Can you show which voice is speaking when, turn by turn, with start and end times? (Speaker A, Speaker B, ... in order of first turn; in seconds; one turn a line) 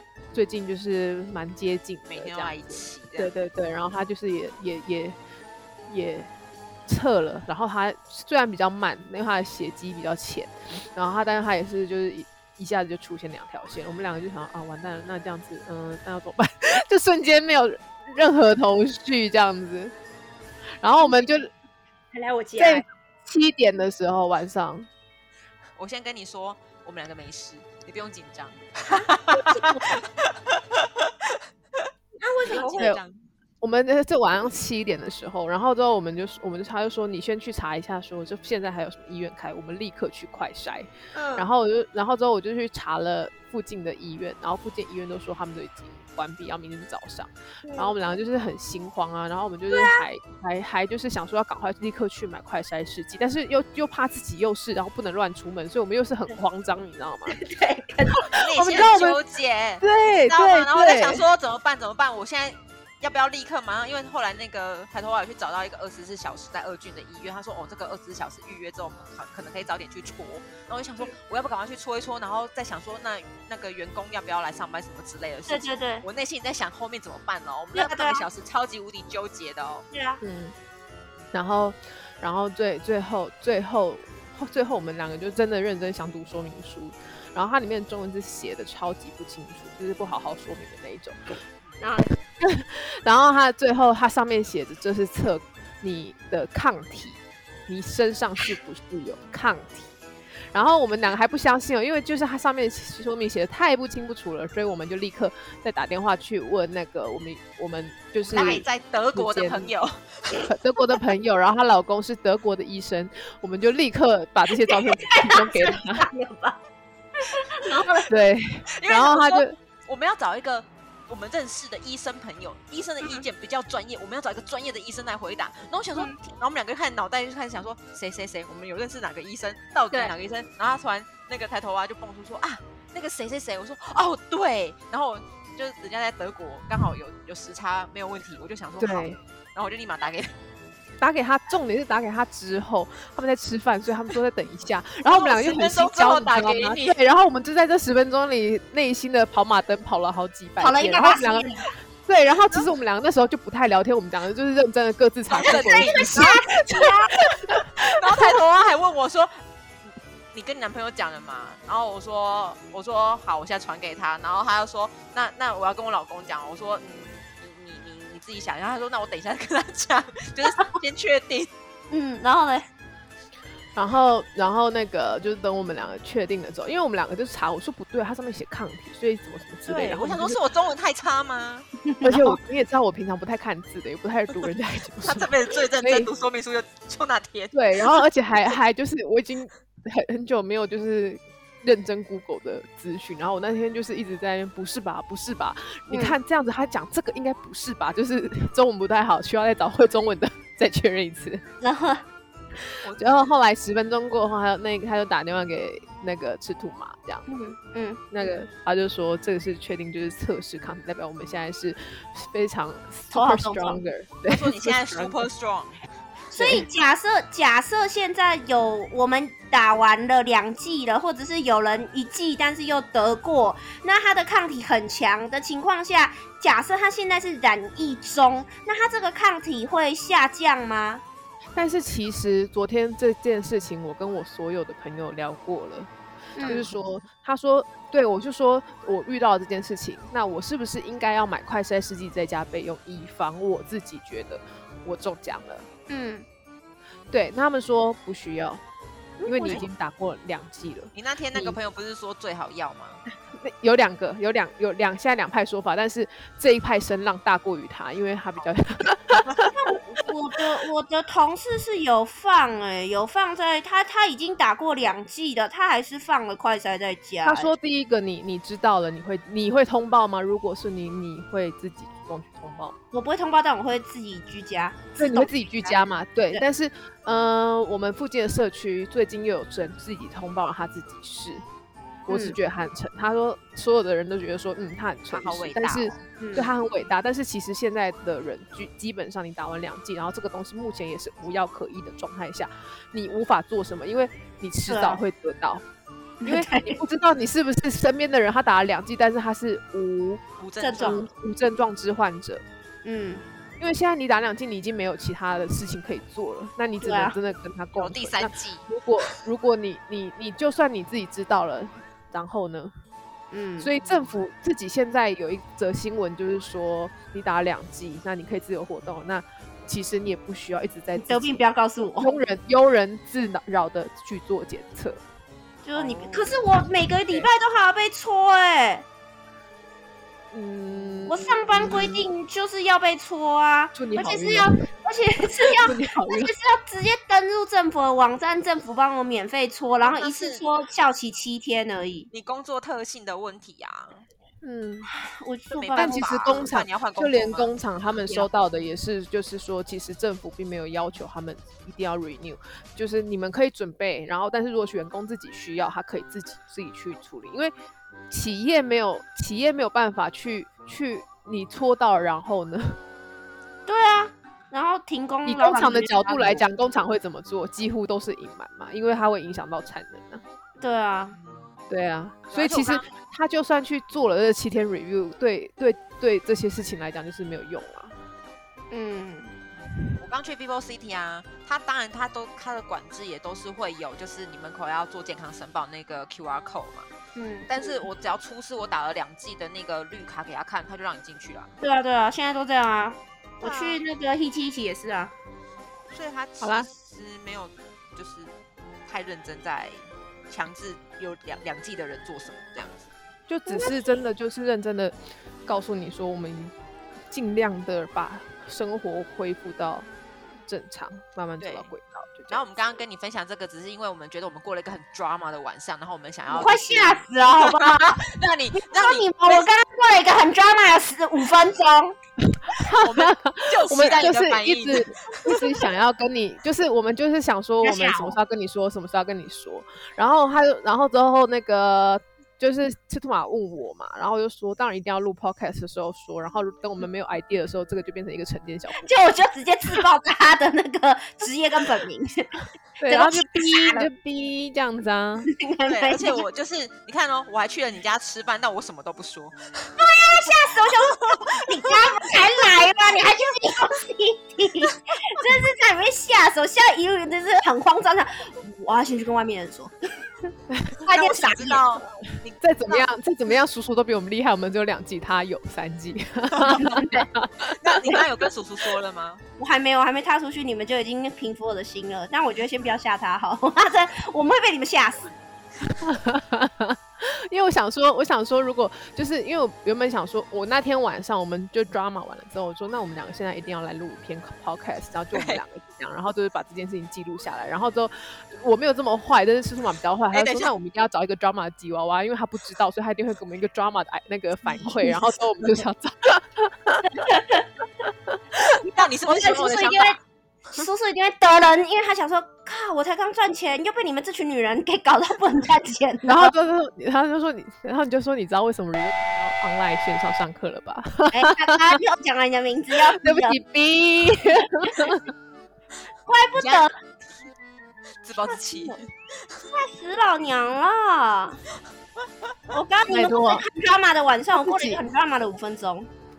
Speaker A: 0.3-5.2
Speaker B: 2.1-3.3
Speaker A: 5.9-6.3
Speaker A: 6.9-19.9
Speaker A: 20.8-21.5
Speaker C: 21.0-21.3
Speaker C: 22.1-22.8
Speaker A: 22.6-24.9
Speaker B: 25.8-31.1
Speaker C: 32.2-33.0
Speaker B: 32.4-33.2
Speaker A: 33.6-57.4
Speaker C: 41.1-41.5
Speaker C: 47.6-48.0
Speaker C: 49.7-50.0
Speaker C: 57.3-58.1
Speaker B: 58.3-79.8
Speaker A: 58.5-59.2
Speaker A: 59.8-61.2
Speaker C: 75.5-76.0
Speaker C: 77.7-78.2
Speaker C: 79.9-80.2
Speaker A: 80.2-80.5
Speaker A: 81.3-91.2
Speaker C: 91.8-92.1
Speaker A: 92.4-99.9
Speaker A: 100.5-109.7
Speaker B: 108.2-110.4
Speaker A: 110.5-116.0
Speaker C: 114.6-116.6
Speaker C: 117.2-118.1
Speaker A: 118.1-119.5
Speaker B: 118.8-140.3
Speaker A: 138.8-139.2
Speaker A: 141.0-151.5
Speaker B: 145.1-146.9
Speaker C: 150.6-151.6
Speaker A: 152.0-156.5
Speaker B: 155.3-157.0
Speaker C: 155.4-157.1
Speaker B: 157.9-159.3
Speaker B: 160.3-171.5
Speaker C: 171.9-172.7
Speaker A: 173.8-180.4
Speaker B: 179.6-181.7
Speaker C: 181.8-182.3
Speaker A: 182.0-186.1
Speaker B: 185.0-187.7
Speaker A: 187.5-201.4
Speaker C: 195.9-196.2
Speaker C: 201.6-202.0
Speaker B: 202.8-203.3
Speaker A: 203.0-207.2
Speaker C: 207.3-208.0
Speaker A: 208.1-215.2
Speaker C: 213.1-213.8
Speaker B: 214.3-215.8
Speaker C: 216.3-231.0
Speaker A: 216.4-216.6
Speaker A: 231.5-235.9
Speaker C: 236.3-236.7
Speaker A: 236.4-245.7
Speaker C: 245.9-246.2
Speaker A: 247.1-248.6
Speaker C: 249.2-249.6
Speaker A: 249.2-251.6
Speaker B: 250.9-253.0
Speaker A: 253.3-259.3
Speaker C: 259.6-267.5
Speaker A: 267.2-272.7
Speaker C: 272.9-275.8
Speaker A: 275.0-281.4
Speaker A: 282.1-295.6
Speaker C: 282.1-282.4
Speaker B: 285.1-286.0
Speaker C: 286.2-286.5
Speaker C: 294.7-295.0
Speaker C: 296.2-296.8
Speaker A: 296.2-300.2
Speaker B: 300.4-301.1
Speaker C: 300.6-301.1
Speaker A: 300.8-302.4
Speaker C: 302.8-303.2
Speaker A: 303.6-312.7
Speaker C: 306.8-307.2
Speaker B: 307.8-308.6
Speaker C: 313.3-313.7
Speaker A: 313.6-321.4
Speaker B: 313.8-314.1
Speaker C: 320.9-322.1
Speaker A: 322.0-325.0
Speaker C: 325.6-328.8
Speaker B: 325.7-326.4
Speaker A: 330.3-332.0
Speaker B: 330.7-331.9
Speaker C: 331.1-342.1
Speaker A: 333.7-334.6
Speaker A: 335.5-336.3
Speaker B: 339.8-340.4
Speaker B: 342.1-344.0
Speaker A: 344.4-344.9
Speaker C: 344.8-346.4
Speaker B: 345.5-347.6
Speaker A: 345.8-357.5
Speaker A: 358.1-362.8
Speaker C: 363.7-366.4
Speaker A: 365.2-370.2
Speaker C: 370.6-371.1
Speaker B: 371.1-371.6
Speaker A: 371.7-377.9
Speaker C: 372.3-372.8
Speaker C: 378.7-379.3
Speaker B: 379.6-386.9
Speaker C: 387.1-387.9
Speaker B: 387.5-391.5
Speaker C: 391.6-395.1
Speaker B: 393.4-393.8
Speaker B: 395.9-398.3
Speaker A: 396.4-396.7
Speaker B: 398.9-402.9
Speaker A: 403.3-406.5
Speaker C: 403.5-403.9
Speaker A: 407.1-409.9
Speaker A: 410.4-412.4
Speaker B: 411.4-411.7
Speaker B: 412.3-419.5
Speaker C: 416.3-418.0
Speaker C: 418.5-421.9
Speaker A: 422.5-438.9
Speaker B: 422.7-425.3
Speaker C: 427.6-428.2
Speaker C: 438.8-443.9
Speaker A: 442.8-445.3
Speaker C: 445.3-446.2
Speaker B: 445.6-450.4
Speaker C: 449.8-459.7
Speaker A: 460.5-460.8
Speaker C: 460.9-461.6
Speaker B: 460.9-462.4
Speaker A: 462.4-468.0
Speaker B: 466.4-466.7
Speaker C: 466.4-467.1
Speaker B: 467.4-469.2
Speaker C: 469.4-475.1
Speaker A: 475.7-476.8
Speaker A: 477.3-496.9
Speaker B: 485.1-485.4
Speaker B: 490.1-490.5
Speaker C: 494.4-495.0
Speaker C: 496.9-497.5
Speaker B: 498.7-500.0
Speaker C: 498.7-500.0
Speaker C: 500.5-506.3
Speaker A: 506.0-511.3
Speaker C: 511.1-513.4
Speaker A: 513.0-515.0
Speaker C: 516.1-516.7
Speaker B: 516.3-516.7
Speaker B: 518.0-518.9
Speaker C: 518.3-518.8
Speaker C: 519.5-521.4
Speaker C: 522.5-525.9
Speaker A: 522.9-523.4
Speaker A: 524.4-524.8